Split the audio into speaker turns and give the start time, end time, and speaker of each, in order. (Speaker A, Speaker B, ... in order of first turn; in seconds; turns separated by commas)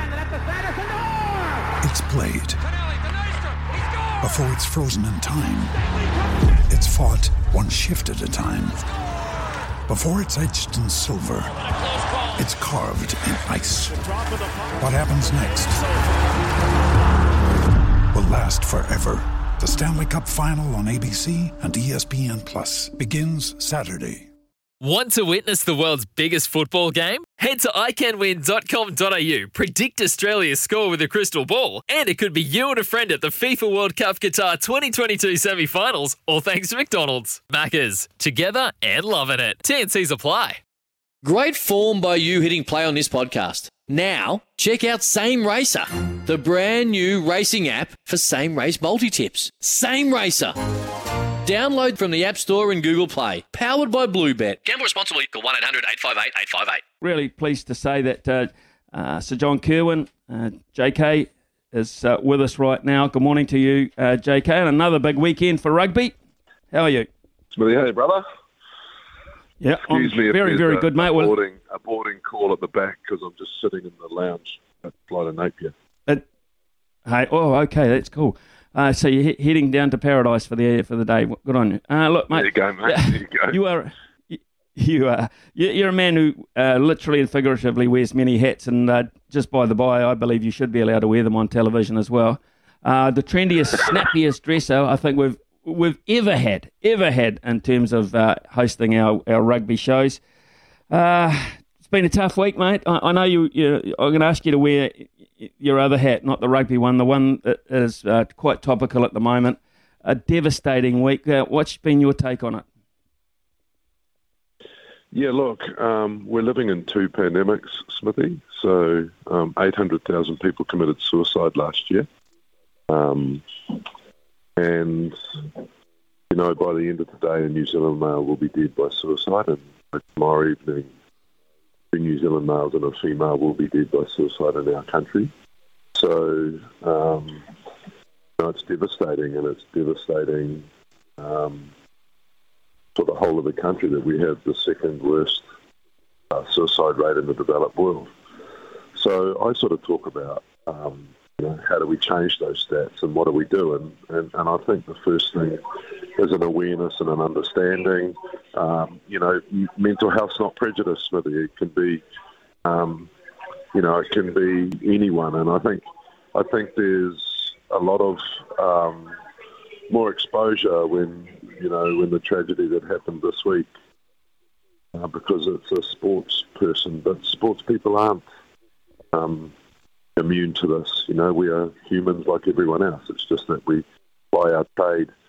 Speaker A: 1.8-2.6, Speaker A: 4.2-5.8, Speaker A: 6.7-8.8, Speaker A: 9.9-11.6, Speaker A: 12.3-14.0, Speaker A: 14.8-15.8, Speaker A: 18.1-24.3, Speaker B: 24.8-40.6, Speaker C: 41.2-50.9, Speaker C: 51.4-56.8, Speaker D: 57.0-66.1, Speaker D: 66.7-67.1, Speaker E: 67.5-68.2, Speaker D: 69.6-71.3, Speaker E: 69.8-75.7, Speaker D: 77.0-100.2, Speaker E: 82.3-83.6, Speaker D: 100.9-112.6, Speaker E: 115.1-122.1, Speaker E: 122.9-123.9, Speaker E: 124.6-125.6, Speaker E: 126.3-130.9, Speaker E: 131.9-135.3, Speaker E: 135.9-137.5, Speaker E: 138.4-140.7, Speaker E: 141.2-141.7, Speaker E: 142.9-145.4, Speaker E: 146.3-148.1, Speaker E: 148.9-155.6, Speaker E: 156.1-162.0, Speaker E: 162.6-163.1, Speaker E: 163.7-165.8, Speaker E: 166.3-169.2, Speaker E: 169.9-173.7, Speaker E: 174.9-178.2, Speaker E: 179.1-179.5, Speaker E: 180.2-185.1